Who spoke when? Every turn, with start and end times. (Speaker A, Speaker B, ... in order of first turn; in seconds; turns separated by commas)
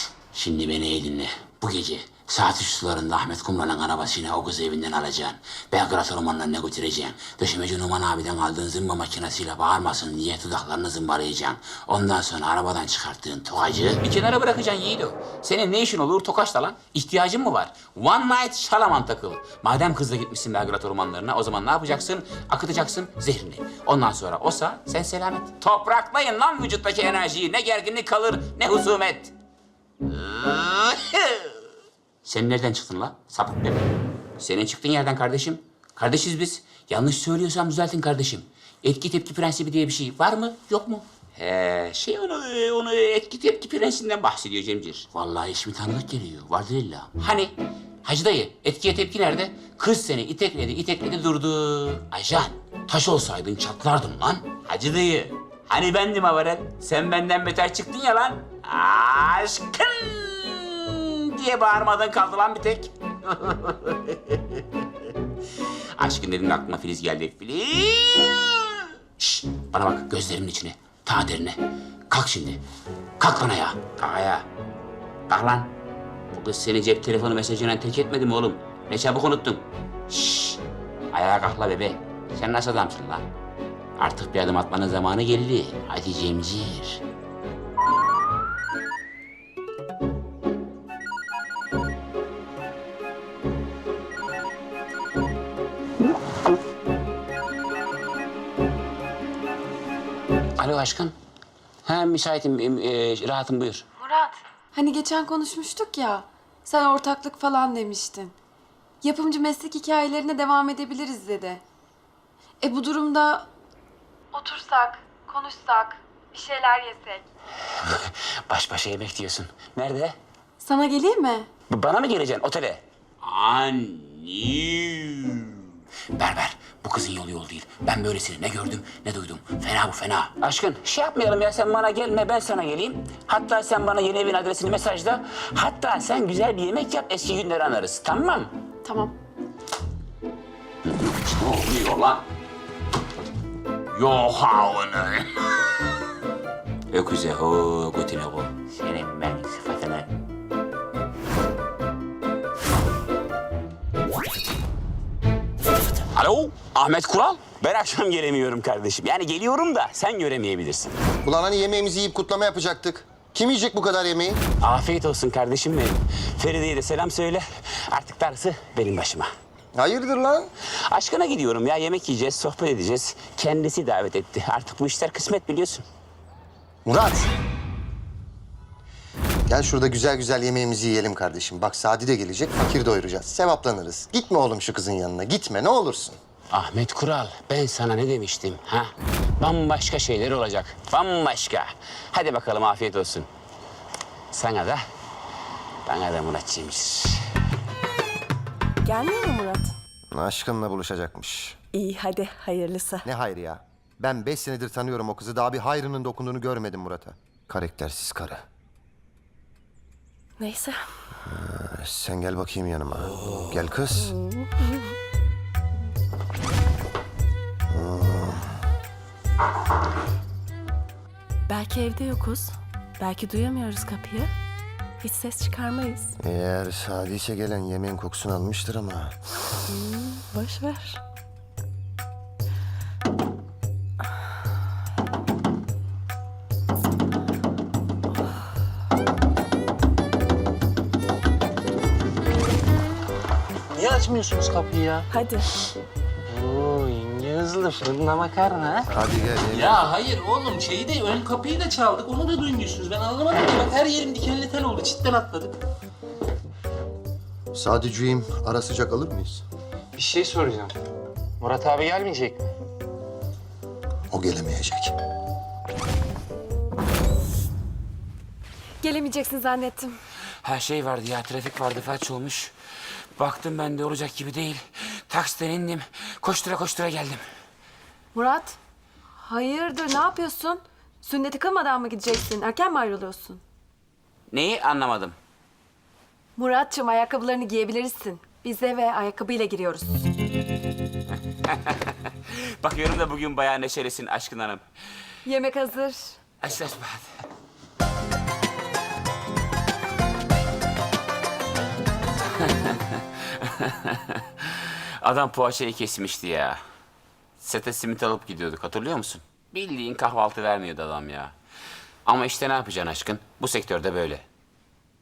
Speaker A: 0.3-29.3, Speaker A: 30.1-31.5, Speaker A: 32.2-33.9, Speaker A: 34.4-64.4, Speaker A: 66.0-71.6, Speaker A: 72.1-72.6, Speaker A: 73.2-74.5, Speaker A: 75.3-75.7, Speaker A: 76.3-80.6, Speaker A: 81.1-83.3, Speaker A: 84.0-87.0, Speaker A: 100.6-101.2, Speaker A: 101.9-103.8, Speaker B: 104.0-108.3, Speaker B: 109.0-111.6, Speaker B: 112.6-113.5, Speaker B: 114.3-117.2, Speaker A: 117.9-120.2, Speaker B: 120.6-121.5, Speaker A: 121.7-125.6, Speaker A: 126.1-138.5, Speaker B: 138.8-139.1, Speaker A: 140.8-142.2, Speaker A: 143.9-145.3, Speaker A: 146.9-150.1, Speaker A: 156.2-160.9, Speaker C: 161.2-164.4, Speaker A: 164.6-169.3, Speaker C: 169.7-170.5, Speaker A: 170.9-175.8, Speaker C: 176.8-177.3, Speaker C: 179.5-186.2, Speaker A: 186.5-193.3, Speaker A: 194.3-194.8, Speaker A: 195.9-197.2, Speaker B: 198.8-199.7, Speaker C: 200.1-201.6, Speaker D: 201.7-203.1, Speaker C: 203.1-208.4, Speaker D: 210.4-210.9, Speaker C: 211.2-214.2, Speaker D: 213.9-214.8, Speaker C: 217.7-218.5, Speaker D: 221.5-224.3, Speaker D: 225.0-226.2, Speaker C: 226.2-229.1, Speaker D: 229.7-231.0, Speaker E: 243.8-245.1, Speaker D: 245.1-245.4, Speaker E: 246.3-248.9, Speaker C: 248.9-249.9, Speaker E: 249.5-255.6, Speaker C: 257.5-259.4, Speaker E: 260.0-260.7, Speaker E: 261.4-262.5, Speaker C: 264.1-264.9, Speaker B: 268.8-270.0, Speaker A: 270.4-272.5, Speaker A: 273.2-277.2, Speaker B: 278.1-278.6, Speaker B: 279.2-283.4, Speaker A: 284.3-285.2, Speaker B: 286.4-290.1, Speaker A: 291.4-294.6, Speaker B: 295.2-296.2, Speaker A: 296.4-297.1, Speaker A: 302.4-306.6, Speaker A: 307.4-311.3, Speaker A: 312.1-314.2